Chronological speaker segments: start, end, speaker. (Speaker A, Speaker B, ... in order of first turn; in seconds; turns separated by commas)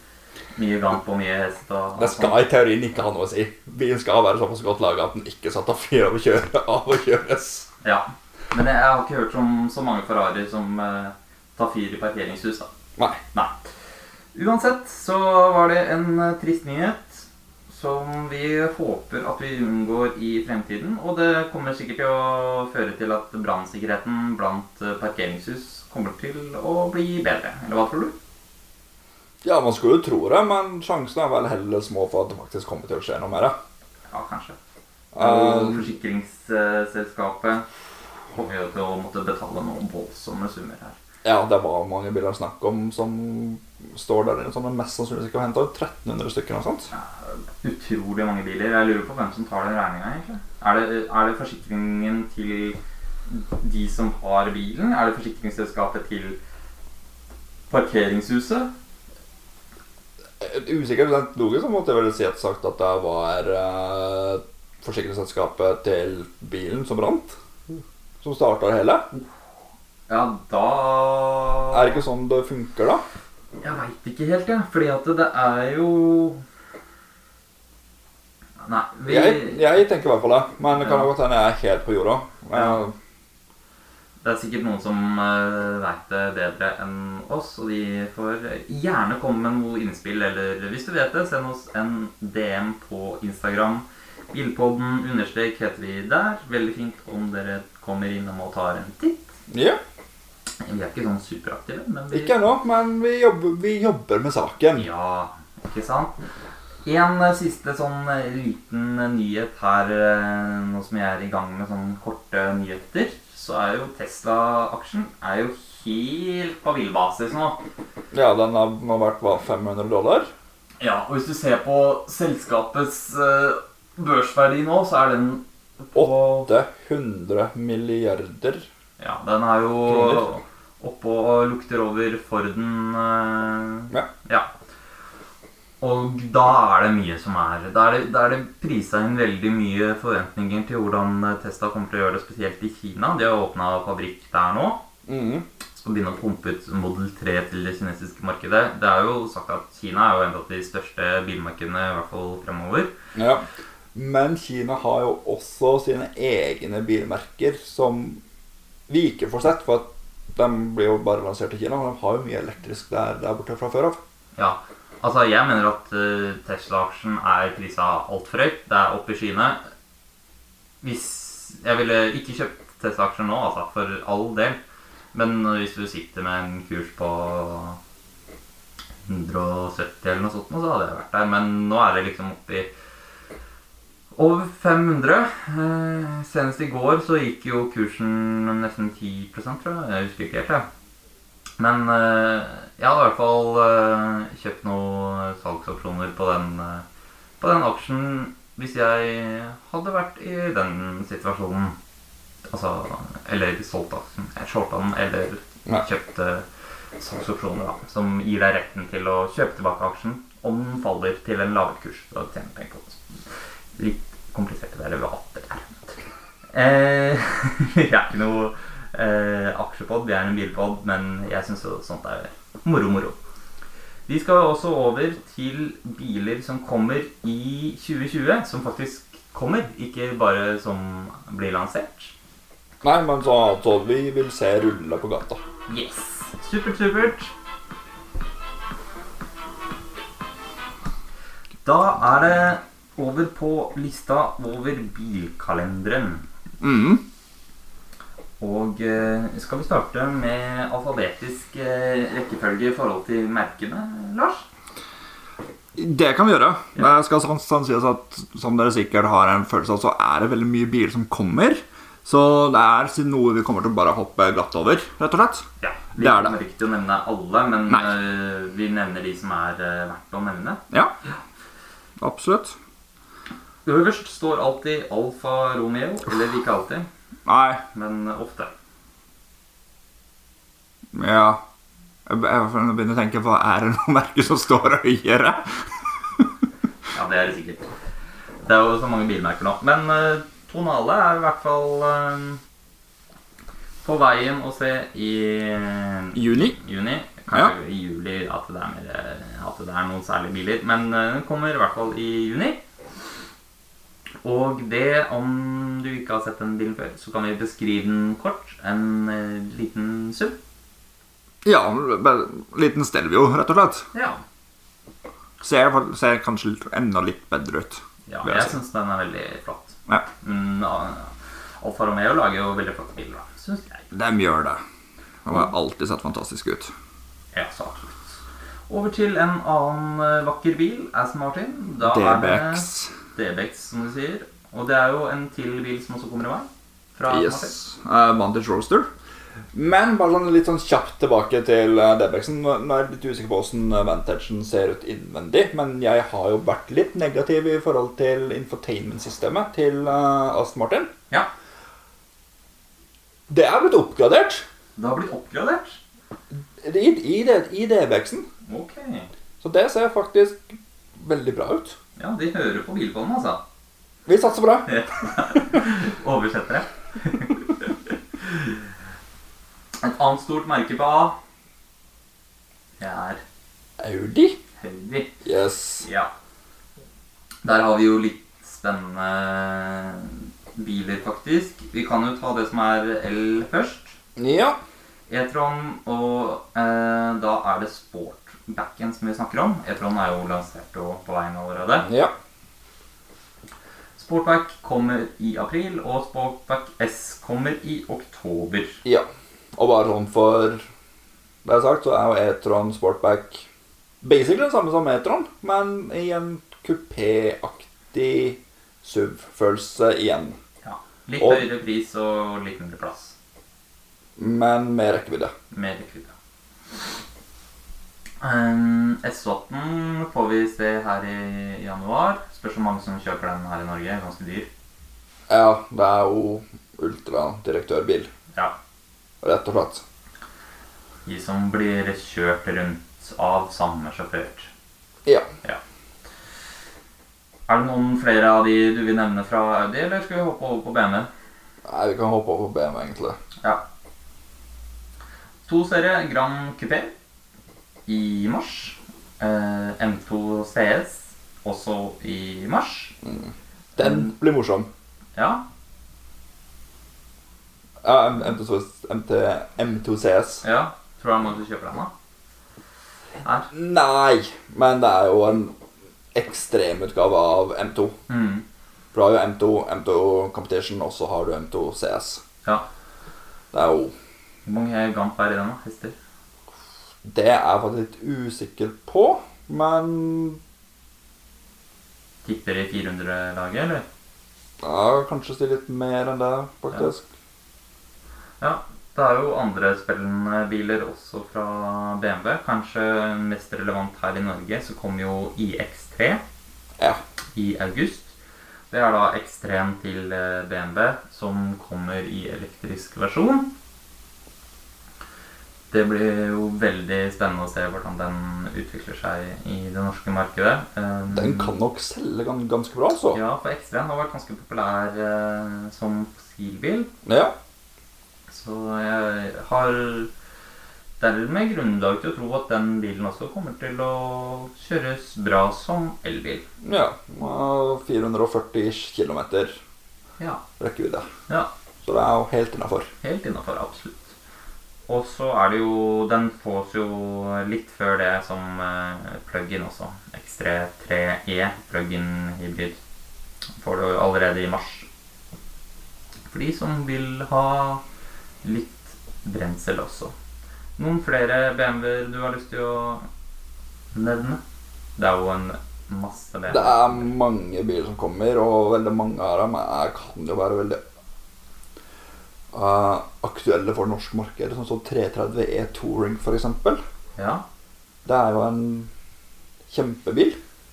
Speaker A: 0.6-2.4, Speaker B: 2.0-7.7, Speaker A: 7.8-12.7, Speaker A: 13.3-13.7, Speaker A: 14.3-28.1, Speaker B: 29.4-33.6, Speaker A: 34.1-34.6, Speaker B: 35.1-35.9, Speaker A: 35.2-37.6, Speaker A: 38.4-41.0, Speaker B: 41.2-46.9, Speaker A: 46.9-56.4, Speaker A: 57.7-58.7, Speaker B: 60.4-69.0, Speaker A: 70.1-72.0, Speaker B: 71.7-73.0, Speaker A: 73.6-76.4, Speaker A: 78.6-79.6, Speaker B: 79.1-82.9, Speaker A: 80.7-81.1, Speaker A: 82.5-82.8, Speaker A: 84.2-99.3, Speaker B: 99.5-99.8, Speaker A: 100.6-102.3, Speaker B: 102.1-104.9, Speaker A: 104.8-106.2, Speaker A: 106.8-117.6, Speaker B: 118.1-120.3, Speaker A: 120.8-126.5, Speaker B: 125.9-128.7, Speaker A: 129.0-134.5, Speaker B: 129.9-130.2, Speaker A: 135.8-144.8, Speaker B: 145.1-145.4, Speaker A: 145.8-152.9, Speaker B: 153.2-158.2, Speaker B: 158.9-164.0, Speaker A: 164.4-169.6, Speaker A: 170.8-174.6, Speaker A: 175.1-177.8, Speaker A: 179.1-182.7, Speaker A: 184.1-190.7, Speaker A: 191.6-196.8, Speaker A: 197.4-201.8, Speaker A: 202.5-206.4, Speaker A: 207.0-213.1, Speaker A: 213.8-215.8, Speaker A: 216.5-223.2, Speaker A: 224.1-232.1, Speaker B: 232.8-235.4, Speaker A: 235.7-237.3, Speaker A: 241.7-246.2, Speaker B: 246.6-247.0, Speaker A: 248.4-254.5, Speaker B: 255.8-265.4, Speaker A: 265.6-270.6, Speaker B: 266.0-266.4, Speaker B: 272.0-272.6, Speaker A: 273.6-276.9, Speaker B: 277.2-277.6, Speaker A: 277.7-278.5, Speaker B: 280.9-281.4, Speaker B: 282.1-285.6, Speaker A: 286.9-287.7, Speaker A: 288.4-292.4, Speaker A: 293.8-302.6, Speaker B: 296.1-296.6, Speaker A: 304.2-310.4, Speaker B: 311.4-313.9, Speaker A: 313.9-314.2, Speaker B: 315.4-318.6, Speaker A: 318.1-323.8, Speaker B: 323.9-324.6, Speaker B: 325.2-326.7, Speaker A: 327.3-337.6, Speaker B: 331.9-332.9, Speaker B: 337.1-338.9, Speaker B: 339.5-350.9, Speaker B: 353.3-354.4, Speaker A: 354.8-355.8, Speaker B: 356.6-358.3, Speaker A: 358.5-359.1, Speaker B: 359.4-361.8, Speaker A: 362.0-363.4, Speaker B: 364.1-364.7, Speaker A: 364.7-368.6, Speaker A: 369.8-371.2, Speaker A: 372.8-373.2, Speaker B: 373.8-374.4, Speaker A: 374.6-375.1, Speaker B: 375.2-375.9, Speaker A: 375.8-376.1, Speaker A: 377.4-384.0, Speaker B: 384.2-384.6, Speaker A: 385.1-391.9, Speaker B: 391.9-392.1, Speaker A: 394.0-398.8, Speaker B: 398.8-400.6, Speaker B: 401.4-403.5, Speaker B: 404.0-410.4, Speaker A: 410.6-413.1, Speaker B: 411.2-411.4, Speaker B: 414.2-415.3, Speaker A: 415.5-416.1, Speaker A: 418.2-424.5, Speaker B: 425.3-428.1, Speaker B: 429.2-429.8, Speaker A: 431.0-434.5, Speaker A: 437.5-441.1, Speaker B: 441.6-443.2, Speaker A: 445.5-446.9, Speaker A: 447.9-453.0, Speaker B: 453.0-454.7, Speaker A: 453.8-454.1, Speaker A: 455.1-455.4, Speaker B: 457.8-460.4, Speaker A: 460.4-461.9, Speaker A: 463.2-463.5, Speaker B: 463.5-465.6, Speaker B: 466.1-468.0, Speaker A: 468.1-468.4, Speaker B: 468.9-472.2, Speaker B: 473.5-473.9, Speaker A: 474.5-475.9, Speaker B: 477.0-480.4, Speaker A: 482.2-483.8, Speaker B: 484.6-487.0, Speaker A: 488.4-496.2, Speaker A: 497.4-498.1, Speaker A: 498.7-503.5, Speaker A: 505.7-511.5, Speaker B: 511.1-513.2, Speaker A: 513.1-516.9, Speaker B: 517.0-517.3, Speaker A: 518.3-520.1, Speaker A: 521.0-526.5, Speaker B: 526.6-529.6, Speaker B: 530.6-531.1, Speaker B: 531.8-532.9, Speaker A: 533.0-534.1, Speaker A: 534.9-542.8, Speaker A: 543.6-544.9, Speaker A: 546.3-547.8, Speaker A: 548.4-550.1, Speaker A: 550.8-553.0, Speaker A: 553.9-554.4, Speaker A: 555.0-557.1, Speaker B: 556.5-560.8, Speaker B: 562.5-566.8, Speaker A: 567.2-567.4, Speaker B: 568.0-568.9, Speaker B: 569.7-570.4